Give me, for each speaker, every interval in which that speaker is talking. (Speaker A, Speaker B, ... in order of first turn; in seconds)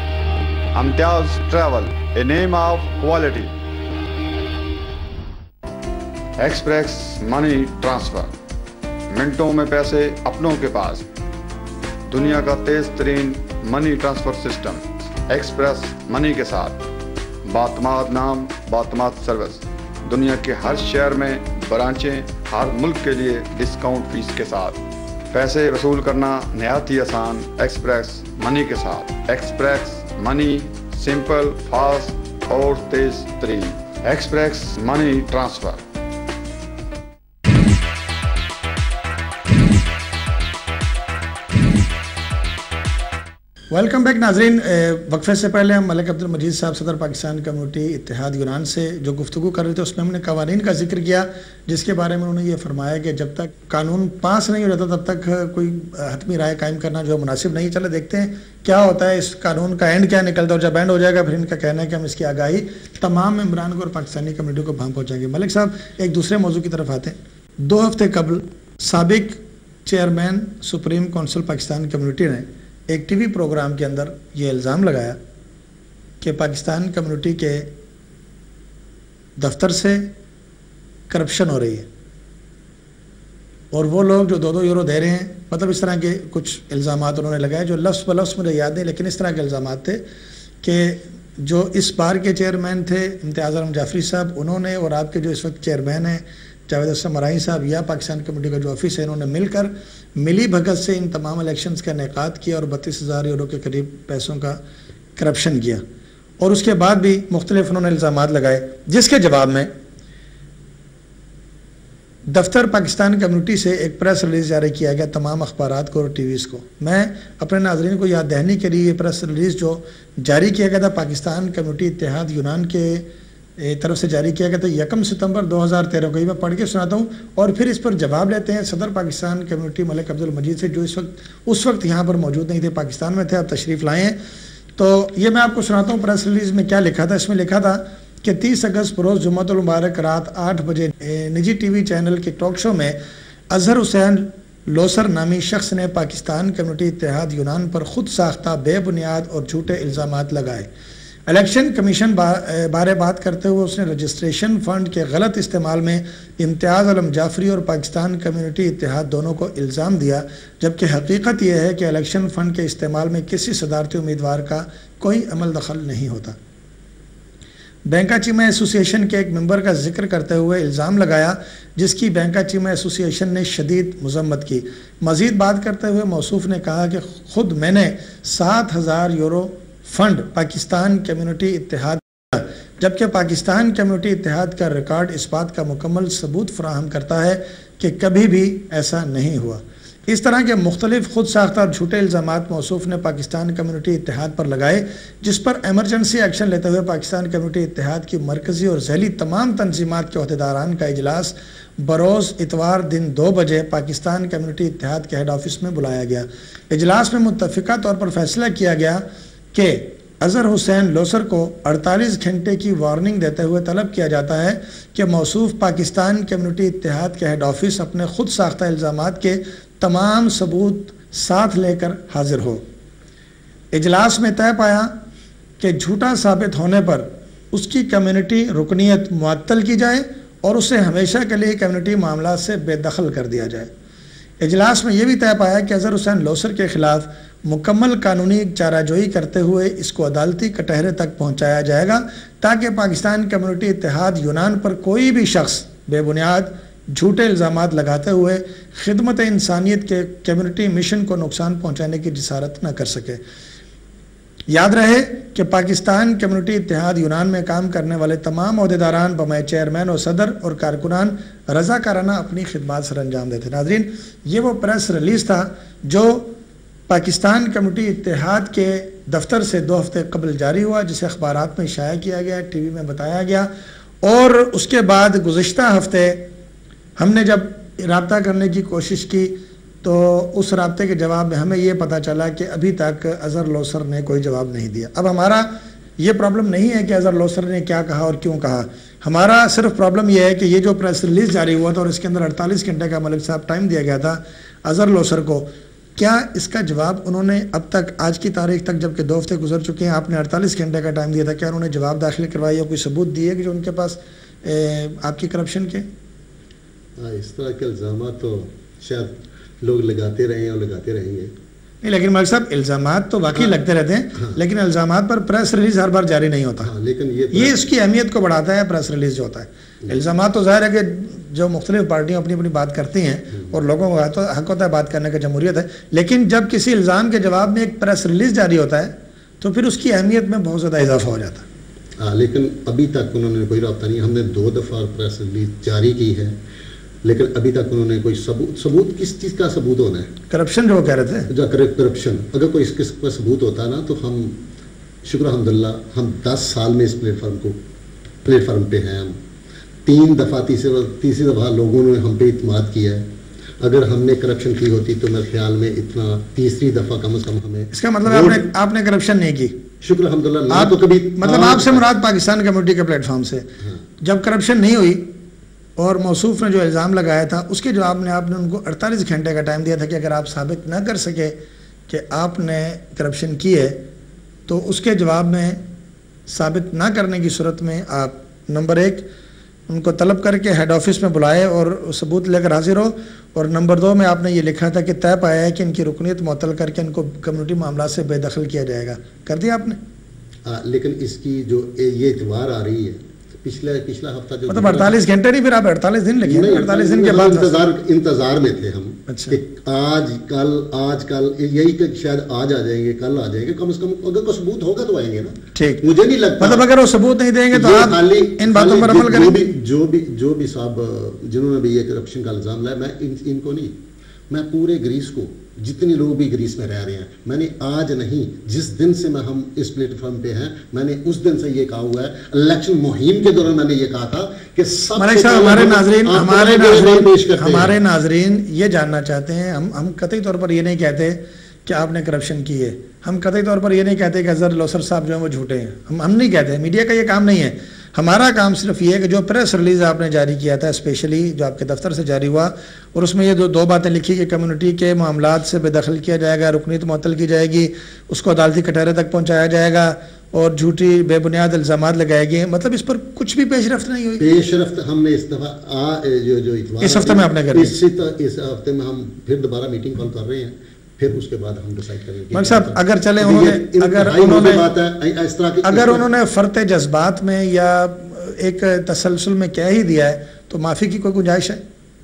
Speaker A: 0.7-3.5, 6.4-8.3, 9.1-11.0, 12.1-16.8, 17.4-24.8, 25.3-35.8
Speaker B: 43.7-75.2, 76.2-77.7, 79.4-80.1, 81.1-81.9, 83.7-90.0, 90.6-104.6, 105.2-105.8, 106.4-109.7, 112.3-123.1, 123.6-134.2, 134.8-143.0, 143.5-150.7, 151.3-166.4, 167.9-222.6, 223.7-224.9, 225.6-233.7, 234.4-253.2, 254.5-266.3, 266.9-273.5, 274.0-276.3, 277.0-305.9, 311.8-316.7, 317.3-331.4, 340.3-341.3, 357.7-359.6, 360.5-365.1, 365.8-371.4, 371.9-373.8, 374.5-375.6, 376.3-379.1, 379.7-389.8, 394.5-397.6, 399.1-399.4, 405.5-405.9, 406.4-409.5, 424.9-454.3, 456.8-457.8, 462.3-464.7, 465.6-471.6
Speaker C: 307.0-311.3, 316.6-317.7, 323.3-323.6, 332.0-336.4, 337.0-340.1, 341.3-344.4, 345.0-347.6, 348.2-349.2, 349.9-353.1, 353.6-358.4, 359.8-361.8, 363.6-363.9, 390.4-395.0, 396.2-406.6, 407.5-413.8, 414.3-427.8, 454.2-466.0